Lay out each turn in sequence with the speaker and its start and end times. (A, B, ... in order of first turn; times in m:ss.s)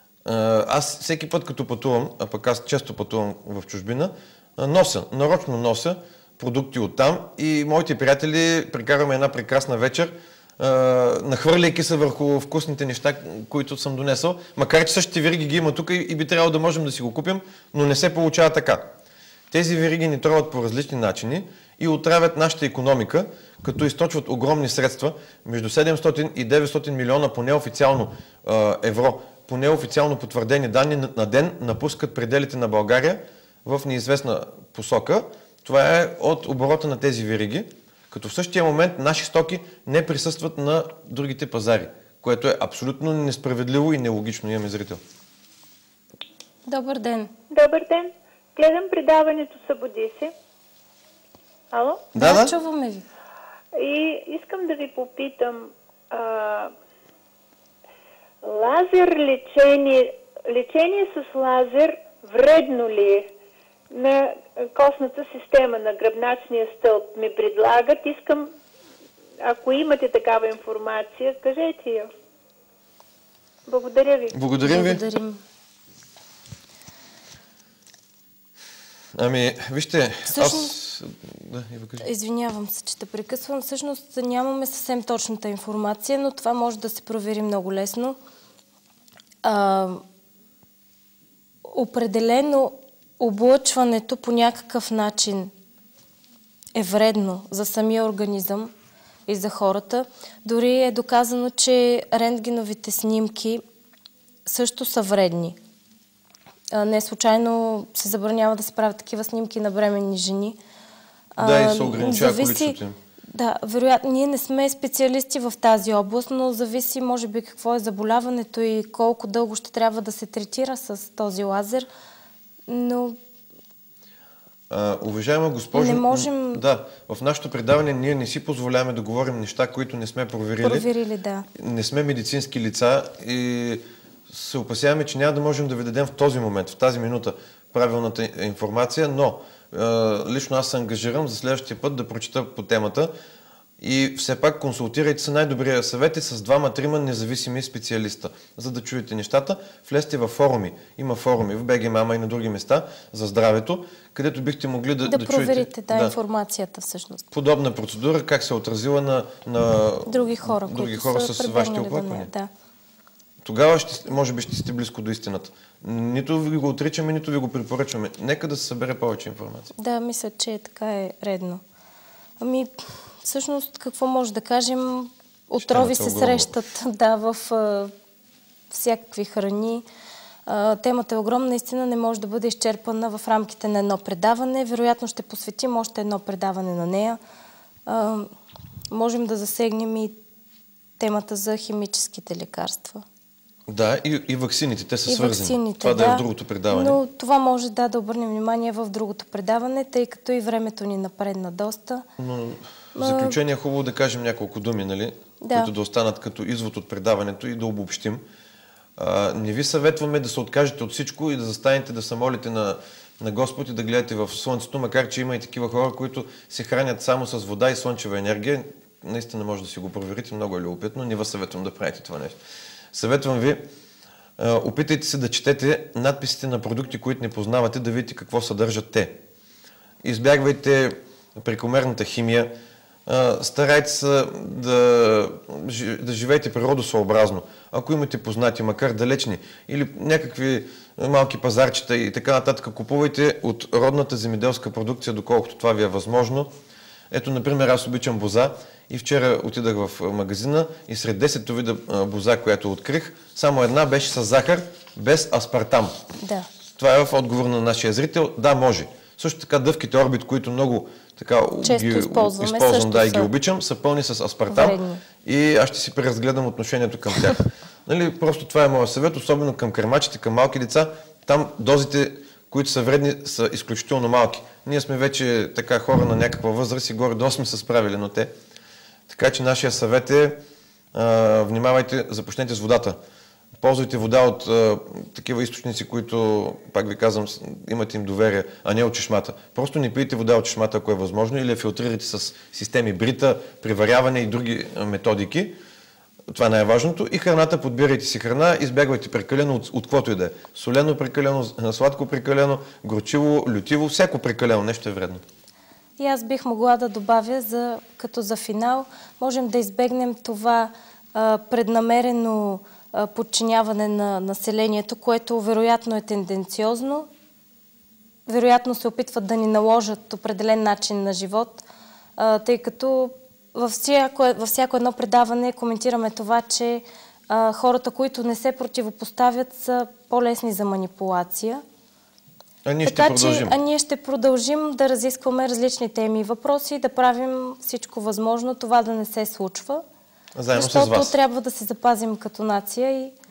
0:00.2-0:18.8 A
0:19.5-0:45.0 A
0:46.7-0:47.3 B
0:47.5-0:50.3 C
0:51.7-0:52.1 C
0:52.2-0:52.6 A
0:52.2-0:53.0 B
0:53.7-0:56.7 C
0:58.4-1:03.3 C
1:03.9-1:08.5 C
1:09.4-1:12.1 C
1:13.7-1:14.4 C
1:14.3-1:15.0 A
1:14.6-1:15.4 B
1:19.2-1:22.1 A
1:20.3-1:20.7 B
1:22.0-1:28.2 B
1:29.4-1:30.0 B
1:31.6-1:35.5 B
1:36.8-1:38.7 B
1:39.3-1:43.6 B
1:44.4-1:45.6 B
1:46.7-1:50.6 B
1:51.4-1:52.8 B
1:51.4-1:53.0 A
1:53.3-2:01.9 B
2:02.7-2:03.2 B
2:04.7-2:10.9 A
2:05.7-2:06.6 B
2:10.6-2:11.5 B
2:11.6-2:23.1 A
2:23.8-2:36.1 A
2:35.1-2:37.2 B
2:37.3-2:42.3 A
2:40.1-2:42.5 B
2:43.4-2:49.7 A
2:49.8-2:51.6 B
2:52.4-2:52.7 B
2:53.2-2:57.9 B
2:55.6-2:56.5 A
2:58.7-2:59.8 B
3:00.5-3:07.2 B
3:07.9-3:08.3 B
3:08.9-3:10.2 B
3:11.0-3:13.0 B
3:13.7-3:17.0 A
3:15.1-3:22.0 B
3:22.2-3:28.2 A
3:23.0-3:23.4 B
3:25.4-3:25.7 B
3:29.0-3:42.4 A
3:42.9-3:43.6 A
3:44.4-3:49.1 A
3:50.0-3:52.5 A
3:53.1-4:06.5 A
4:07.1-4:16.0 A
4:16.2-4:16.5 B
4:16.8-4:38.3 A
4:21.6-4:23.3 B
4:24.5-4:25.0 B
4:39.1-4:40.4 A
4:40.9-4:43.0 A
4:43.6-4:55.5 A
4:56.3-5:05.2 A
5:06.0-5:17.1 B
5:18.3-5:21.6 B
5:22.2-5:31.6 B
5:32.6-5:33.6 A
5:32.9-5:39.8 B
5:40.4-5:41.2 A
5:40.5-5:43.2 B